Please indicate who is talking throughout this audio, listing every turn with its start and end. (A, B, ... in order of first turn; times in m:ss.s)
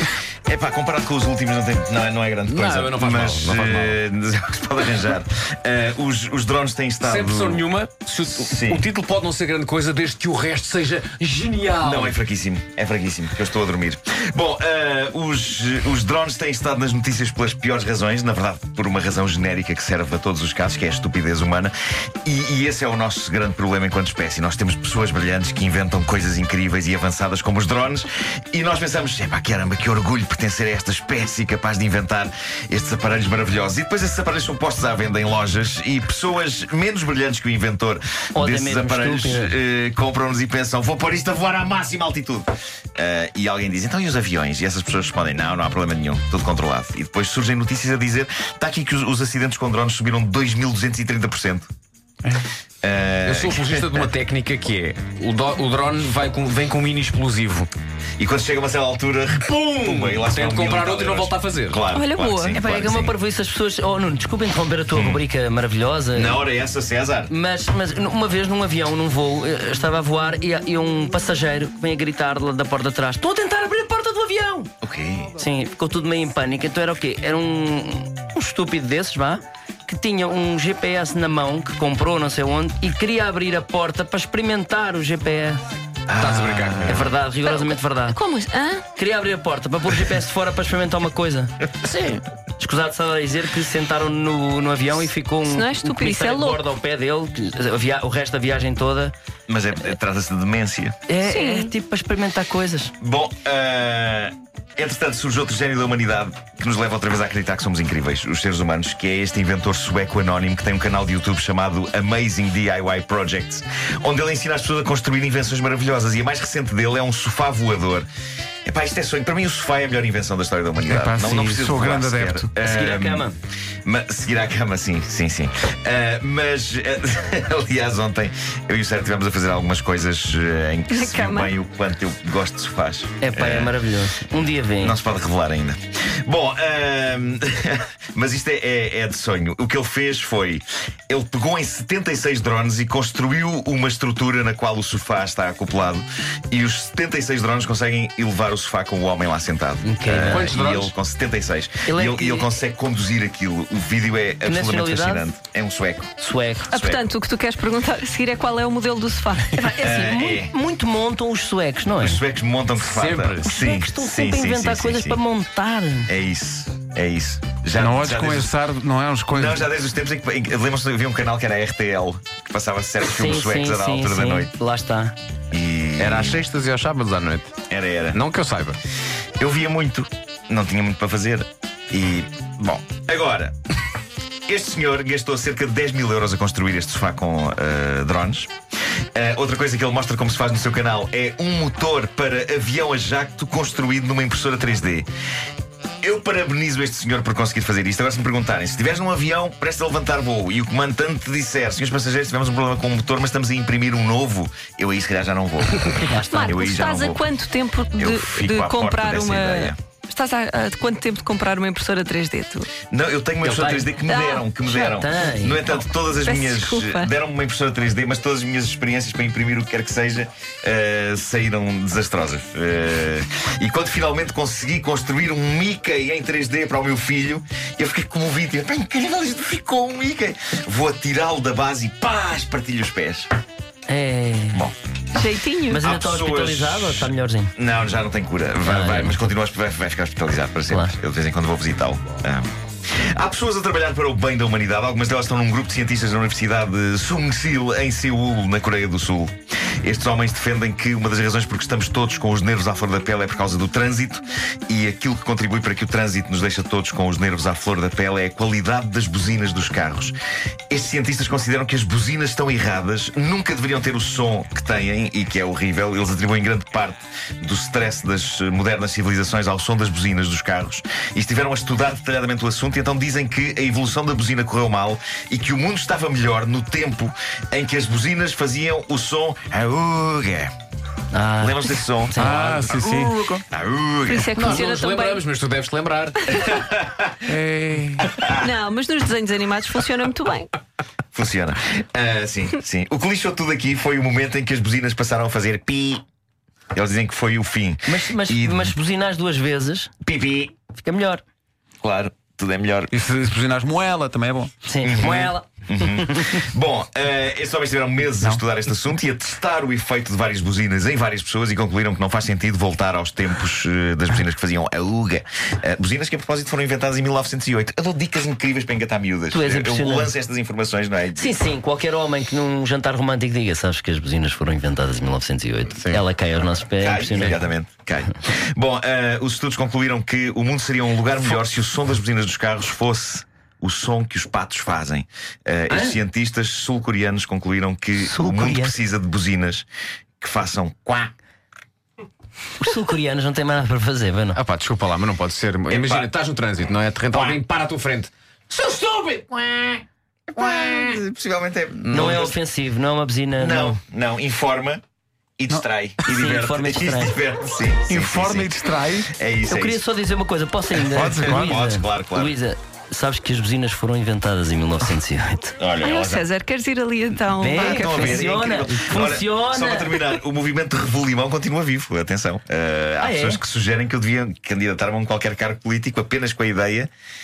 0:00.4-0:07.6 A
0:02.4-0:04.0 B
0:07.0-0:12.1 B
0:08.4-0:08.8 A
0:11.8-0:21.7 A
0:22.2-0:51.7 A
0:38.4-0:39.5 C
0:52.8-0:54.1 A
0:53.2-0:57.7 B
0:58.2-1:03.1 A
0:59.4-1:01.8 B
1:01.9-1:02.5 D
1:02.4-1:06.4 C
1:04.9-1:05.2 A
1:06.1-1:07.3 A
1:07.3-1:14.7 C
1:14.8-1:15.4 A
1:15.4-1:25.6 C
1:26.1-1:27.1 A
1:26.2-1:27.0 B
1:26.8-1:28.2 C
1:27.4-1:28.8 D
1:28.9-1:39.1 C
1:35.4-1:36.6 D
1:39.5-1:41.0 A
1:41.1-1:42.9 C
1:41.2-1:41.7 D
1:43.0-1:58.1 A
1:58.6-2:03.3 A
2:00.8-2:02.5 E
2:02.6-2:03.4 C
2:03.8-2:13.8 A
2:10.9-2:11.5 D
2:13.2-2:15.0 C
2:14.8-2:36.1 A
2:29.8-2:30.5 C
2:30.2-2:30.9 B
2:31.8-2:32.5 C
2:34.4-2:35.3 C
2:36.2-2:36.7 C
2:36.7-2:40.1 D
2:36.7-2:37.0 A
2:39.6-2:42.2 C
2:39.8-2:40.5 A
2:42.0-2:45.2 A
2:42.8-2:43.5 B
2:43.4-2:46.1 C
2:46.1-2:48.5 A
2:47.8-2:49.7 E
2:49.3-2:54.5 A
2:53.0-2:55.1 C
2:55.5-2:56.4 A
2:56.0-2:57.5 B
2:57.7-2:58.2 A
2:58.1-2:58.8 B
2:59.4-3:03.5 A
3:04.5-3:08.5 A
3:09.1-3:15.1 A
3:16.0-3:27.3 A
3:26.0-3:26.6 C
3:26.3-3:32.7 D
3:28.0-3:29.8 A
3:32.9-3:53.3 A
3:33.4-3:34.0 C
3:34.0-3:34.5 D
3:34.6-3:35.6 C
3:36.1-3:37.1 D
3:53.9-3:54.6 C
3:55.1-3:55.8 D
3:55.7-3:57.5 C
3:55.8-4:20.1 A
3:58.6-3:59.2 C
4:20.7-4:40.5 A
4:41.1-4:42.4 C
4:41.4-4:42.8 A
4:42.2-4:43.3 E
4:42.4-4:43.4 B
4:43.5-4:44.3 A
4:44.0-4:45.2 D
4:44.3-4:46.4 B
4:46.4-4:47.1 A
4:47.2-4:48.1 E
4:48.3-4:50.5 D
4:51.1-4:56.0 A
4:56.7-4:58.8 A
4:57.8-4:59.9 C
5:00.0-5:00.5 A
5:00.8-5:01.2 C
5:01.8-5:02.9 A
5:02.9-5:04.5 E
5:04.6-5:06.4 C
5:04.8-5:21.4 A
5:19.3-5:20.1 C
5:21.2-5:27.4 C
5:26.8-5:39.6 A
5:35.7-5:36.0 C
5:38.0-5:38.8 C
5:40.2-5:41.1 A
5:42.6-5:44.4 C
5:44.4-5:49.8 B
5:45.7-5:46.1 A
5:47.1-5:47.4 A
5:50.3-5:52.4 A
5:50.4-5:50.8 B
5:51.9-5:52.2 B
5:51.9-5:53.8 C
5:53.4-5:54.8 A
5:55.4-5:58.5 A
5:56.0-5:57.2 C
5:57.9-5:59.1 E
5:59.1-5:59.8 A
5:59.5-6:05.5 C
6:00.9-6:01.6 E
6:01.2-6:02.4 A
6:05.6-6:06.2 A
6:05.8-6:08.3 D
6:07.4-6:10.0 C
6:07.5-6:16.9 A
6:13.0-6:13.4 C